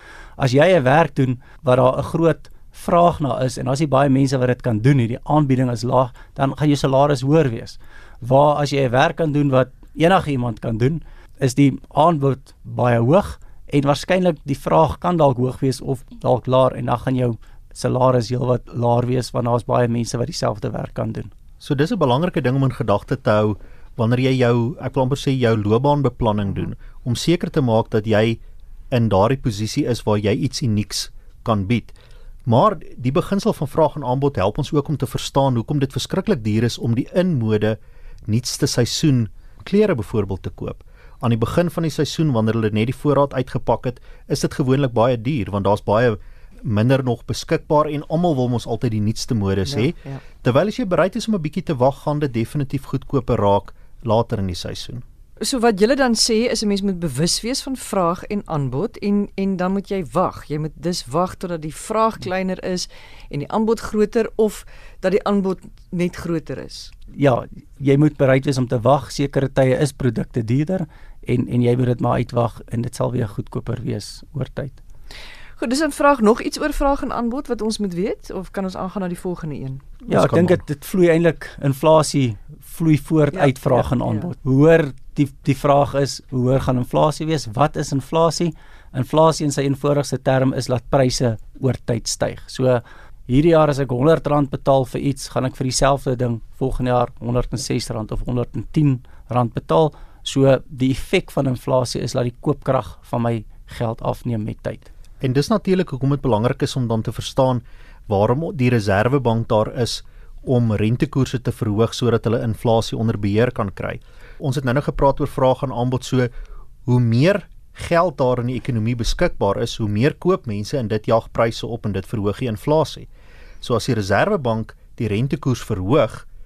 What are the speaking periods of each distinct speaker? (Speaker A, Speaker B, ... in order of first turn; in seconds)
Speaker A: 0.4-21.3, 67.1-74.8, 80.1-104.9
Speaker B: 21.6-28.4, 28.9-31.9, 32.5-55.0, 80.1-80.6, 105.2-116.3, 116.9-123.1, 123.6-126.2
Speaker C: 49.7-50.2, 55.4-66.9, 75.6-79.8, 83.3-84.3